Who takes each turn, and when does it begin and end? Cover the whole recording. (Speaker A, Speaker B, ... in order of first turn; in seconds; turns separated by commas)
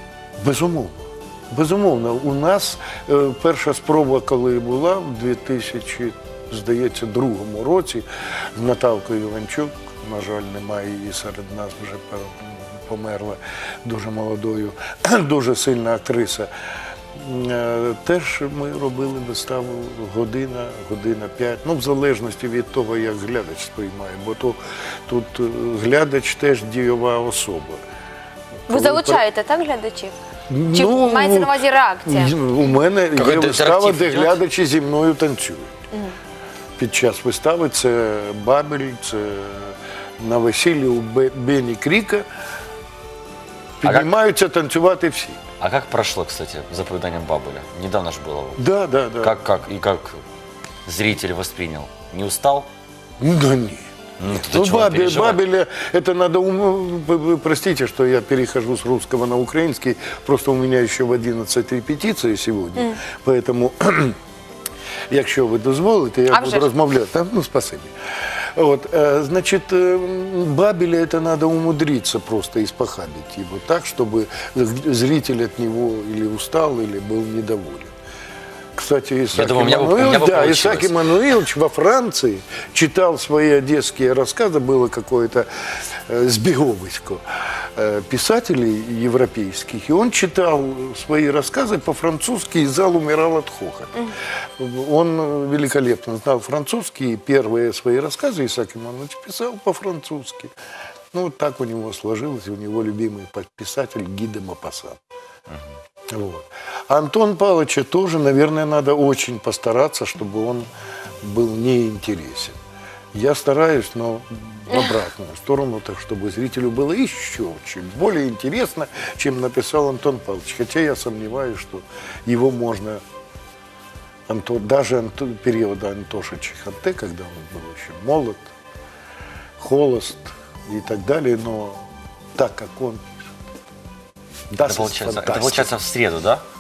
Speaker A: 0.4-16.5, Speaker A: 17.1-27.8, Speaker A: 28.7-29.2, Speaker B: 28.7-30.2, Speaker A: 30.5-35.7, Speaker B: 30.7-32.4, Speaker C: 33.1-34.4, Speaker A: 36.8-42.3, Speaker A: 43.8-45.4, Speaker C: 43.8-44.1, Speaker C: 45.6-48.6, Speaker A: 48.6-49.4, Speaker C: 49.2-50.2, Speaker C: 50.9-52.7, Speaker A: 53.2-64.2, Speaker C: 54.2-55.4, Speaker A: 65.1-67.9, Speaker B: 66.3-66.7, Speaker A: 68.6-77.9, Speaker A: 78.8-85.5, Speaker C: 79.3-80.9, Speaker A: 86.1-87.2, Speaker A: 87.8-100.5, Speaker A: 101.1-105.0, Speaker A: 106.1-110.7, Speaker A: 111.2-112.6, Speaker A: 113.1-123.0, Speaker B: 114.7-115.0, Speaker A: 124.3-128.5, Speaker A: 129.6-131.8, Speaker A: 132.4-133.3, Speaker A: 134.5-135.7, Speaker C: 134.6-136.4